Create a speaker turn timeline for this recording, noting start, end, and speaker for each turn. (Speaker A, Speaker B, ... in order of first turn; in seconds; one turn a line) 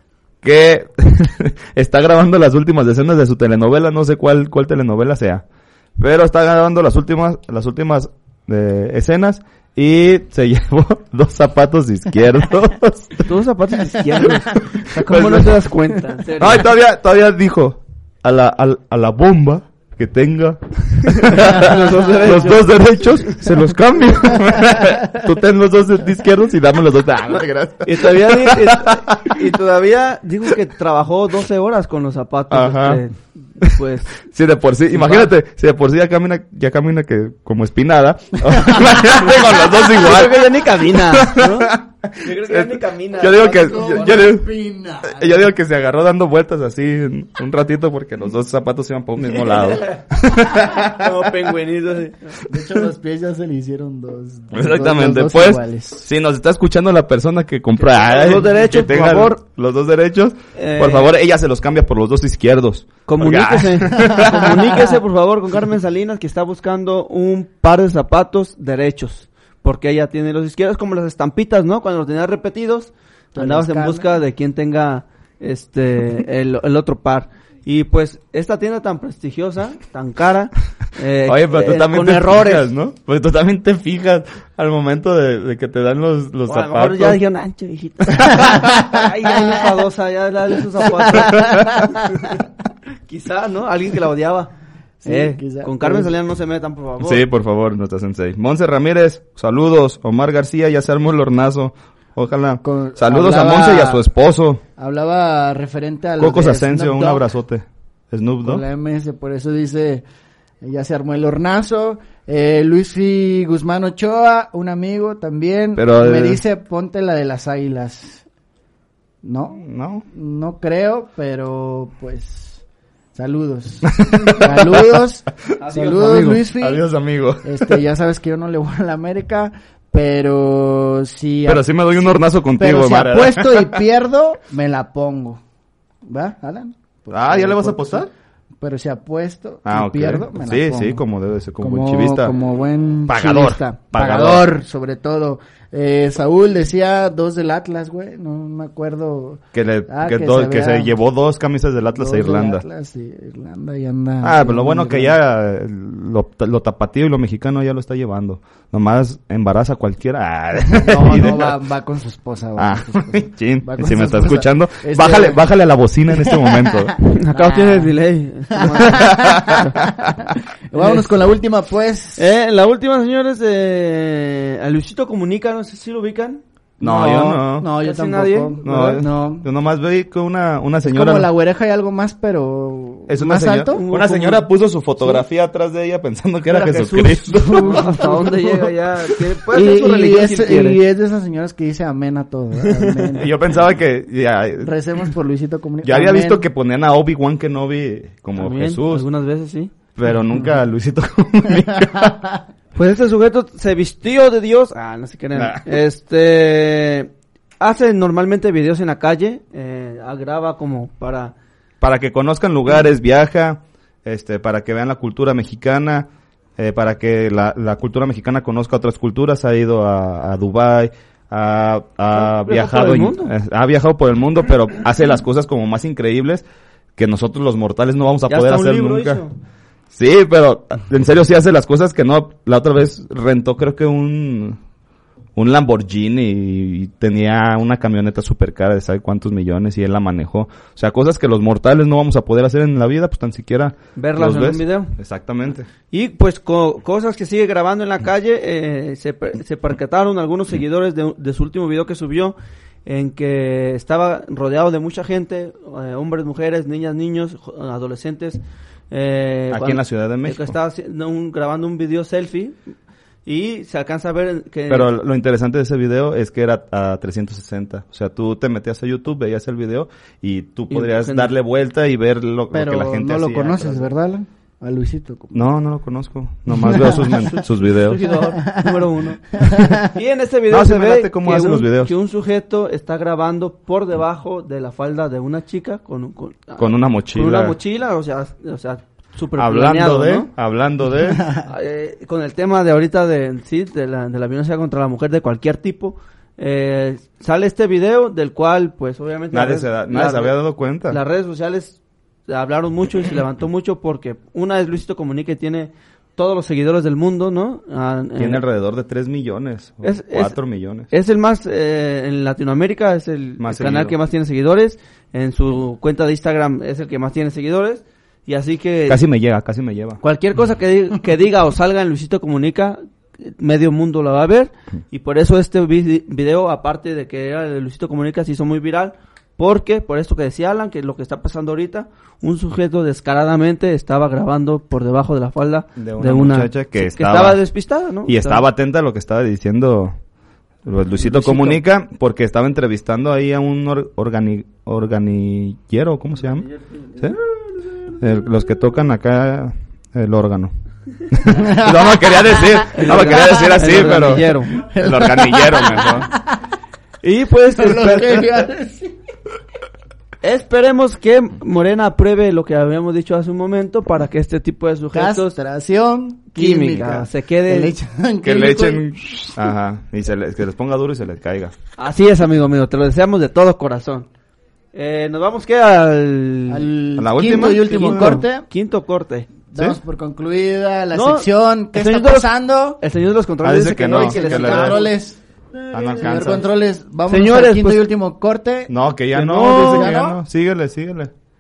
Speaker A: 0.4-5.4
Speaker A: 6.0-13.3
Speaker B: 13.2-16.7
Speaker A: 14.6-15.6
Speaker A: 16.4-29.3
Speaker B: 21.1-23.4
Speaker B: 27.3-34.2
Speaker A: 32.5-33.0
Speaker A: 34.3-44.5
Speaker B: 34.9-35.3
Speaker B: 39.6-44.2
Speaker C: 43.5-45.5
Speaker A: 45.0-51.3
Speaker B: 50.8-52.4
Speaker C: 52.5-56.0
Speaker A: 54.5-64.7
Speaker B: 57.8-59.4
Speaker B: 60.6-61.2
Speaker B: 63.1-82.7
Speaker C: 73.3-74.1
Speaker A: 81.3-87.2
Speaker B: 86.5-92.2
Speaker A: 91.3-91.7
Speaker C: 91.5-91.8
Speaker B: 93.1-94.5
Speaker C: 95.0-96.1
Speaker B: 95.1-97.2
Speaker A: 97.0-104.6
Speaker C: 102.6-104.0
Speaker C: 104.8-107.2
Speaker A: 106.2-108.6
Speaker C: 108.4-110.0
Speaker C: 110.6-118.2
Speaker A: 115.8-116.4
Speaker C: 119.2-122.6
Speaker A: 119.6-120.0
Speaker C: 123.2-126.8
Speaker A: 123.9-125.0
Speaker B: 125.6-126.4
Speaker A: 126.6-127.8
Speaker C: 127.4-135.4
Speaker A: 131.4-133.8
Speaker C: 136.1-138.1
Speaker A: 137.1-138.1
Speaker C: 138.6-141.0
Speaker A: 139.7-142.3
Speaker C: 141.6-150.9
Speaker A: 143.1-144.5
Speaker A: 149.5-152.7
Speaker C: 151.9-155.2
Speaker A: 154.2-161.6
Speaker C: 160.6-165.4
Speaker A: 162.6-166.9
Speaker C: 166.2-167.9
Speaker B: 167.0-169.7
Speaker C: 168.5-172.2
Speaker A: 168.9-170.1
Speaker B: 170.8-171.1
Speaker B: 172.2-176.4
Speaker A: 176.8-177.7
Speaker C: 176.8-179.5
Speaker B: 177.1-178.6
Speaker A: 178.6-181.3
Speaker C: 180.8-183.8
Speaker A: 183.1-188.1
Speaker B: 183.7-184.4
Speaker B: 186.5-190.8
Speaker C: 187.3-188.6
Speaker C: 189.5-193.3
Speaker B: 192.6-193.2
Speaker A: 193.2-194.7
Speaker C: 194.6-196.4
Speaker A: 195.8-199.1
Speaker B: 198.4-199.7
Speaker A: 199.9-202.2
Speaker B: 202.7-211.3
Speaker A: 205.3-205.8
Speaker A: 211.8-226.4
Speaker B: 222.1-223.3
Speaker A: 227.0-229.2
Speaker B: 228.3-229.4
Speaker A: 229.9-234.6
Speaker A: 235.4-245.7
Speaker B: 243.9-244.9
Speaker B: 245.9-252.3
Speaker B: 252.9-262.6
Speaker A: 259.5-260.6
Speaker B: 263.3-264.9
Speaker A: 264.7-273.9
Speaker B: 270.7-271.3
Speaker C: 272.5-275.4
Speaker A: 275.3-278.0
Speaker C: 276.6-277.0
Speaker B: 276.7-290.3
Speaker C: 279.4-279.9
Speaker A: 280.5-281.9
Speaker A: 286.6-287.6
Speaker A: 289.4-291.3
Speaker B: 291.4-300.4
Speaker A: 299.3-301.0
Speaker B: 300.9-308.4
Speaker A: 308.2-310.9
Speaker B: 309.8-310.4
Speaker B: 310.9-319.0
Speaker A: 313.4-313.9
Speaker A: 318.9-320.0
Speaker B: 320.0-338.4
Speaker A: 335.8-337.4
Speaker A: 338.1-339.9
Speaker A: 340.6-346.5
Speaker B: 341.1-341.6
Speaker A: 348.0-350.5
Speaker A: 351.1-356.1
Speaker C: 351.3-352.0
Speaker B: 352.8-354.6
Speaker C: 354.6-356.4
Speaker B: 357.0-358.3
Speaker C: 357.6-358.9
Speaker B: 360.2-365.4
Speaker C: 364.9-368.8
Speaker B: 366.3-367.7
Speaker A: 368.2-371.5
Speaker B: 371.8-374.1
Speaker B: 374.7-376.7
Speaker C: 376.5-378.4
Speaker A: 377.0-378.2
Speaker B: 377.4-379.3
Speaker C: 379.5-382.8
Speaker B: 380.9-384.9
Speaker A: 383.4-384.8
Speaker C: 383.9-385.2
Speaker A: 385.7-386.5
Speaker C: 385.9-388.7
Speaker B: 387.1-387.9
Speaker A: 388.7-391.1
Speaker B: 389.1-389.9
Speaker C: 389.5-390.2